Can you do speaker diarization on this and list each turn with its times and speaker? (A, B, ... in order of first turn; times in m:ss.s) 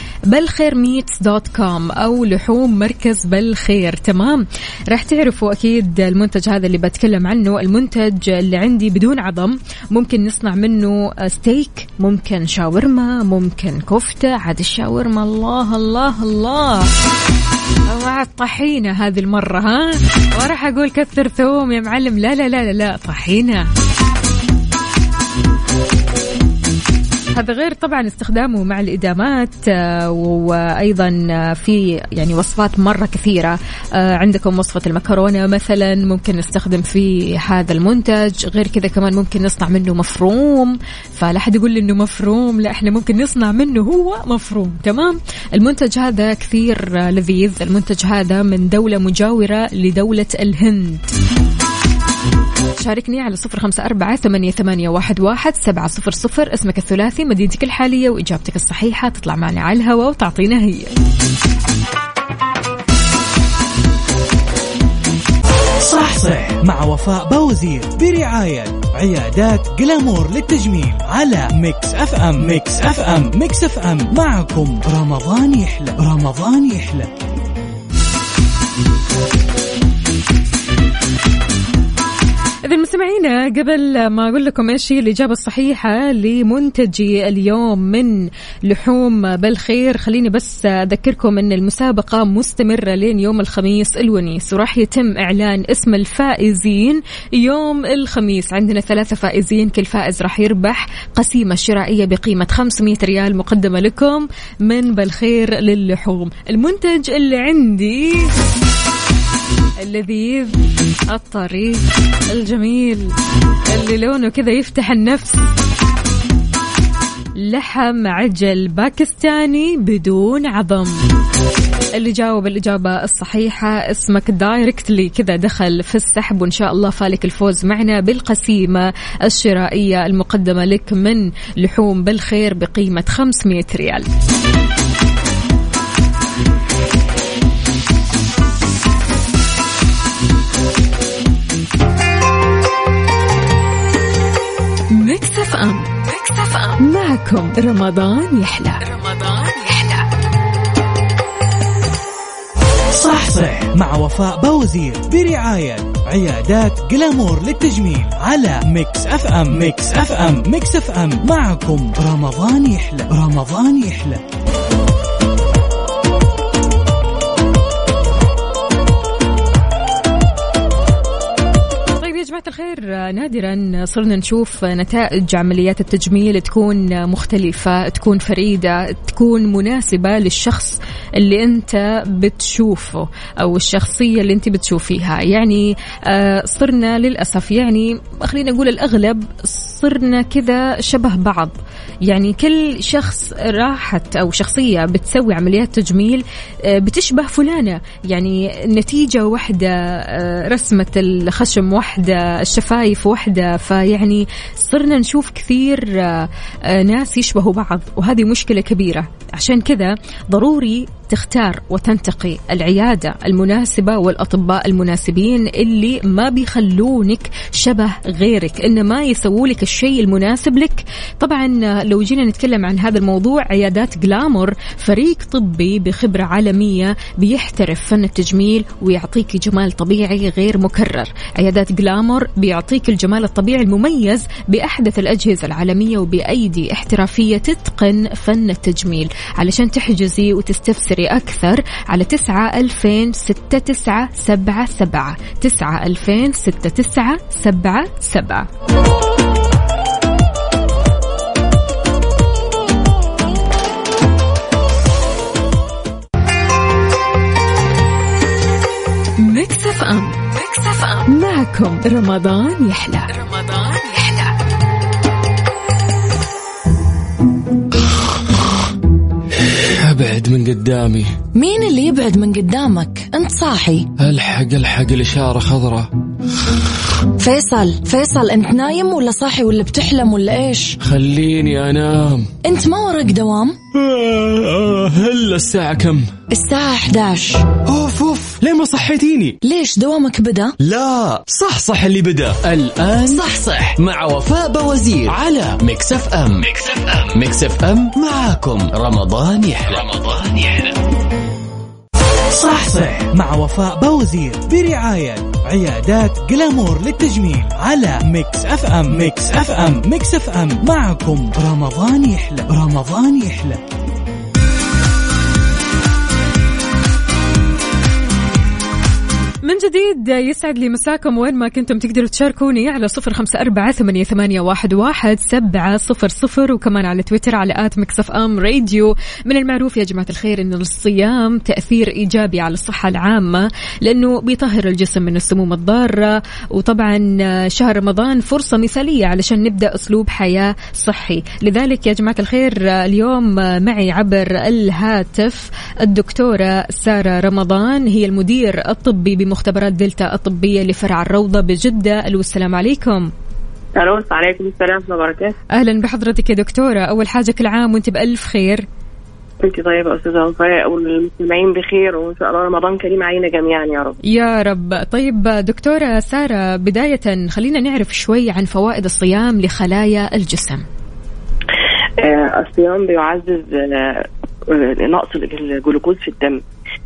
0:00.3-0:16.9 A
0:17.9-0:23.7 A
0:27.3-0:51.1 A
0:52.8-1:00.9 A
1:05.8-1:17.1 B
1:22.6-1:48.3 A
1:49.8-1:50.6 A
1:51.1-1:53.2 A
1:53.7-1:55.5 A
1:57.4-2:01.0 A
2:02.0-2:14.1 A
2:24.9-2:28.9 A
2:32.9-2:44.2 B
2:52.0-4:08.5 A
4:19.2-4:20.4 A
4:20.9-4:24.3 A
4:29.8-4:31.2 C
4:31.4-4:33.9 D
4:34.0-4:35.9 C
4:37.2-4:40.8 D
4:40.8-4:42.3 C
4:42.4-4:43.6 D
4:43.8-4:46.1 C
4:46.3-4:47.4 D
4:47.6-4:49.4 C
4:49.4-4:50.6 D
4:50.6-4:51.2 E
4:51.3-4:53.2 C
4:52.6-5:00.7 E
5:02.3-5:13.6 B
5:19.4-5:53.1 A
5:53.8-5:55.4 F
5:55.5-5:58.7 A
5:59.4-6:04.0 F
6:04.1-6:10.6 A
6:12.0-6:16.4 F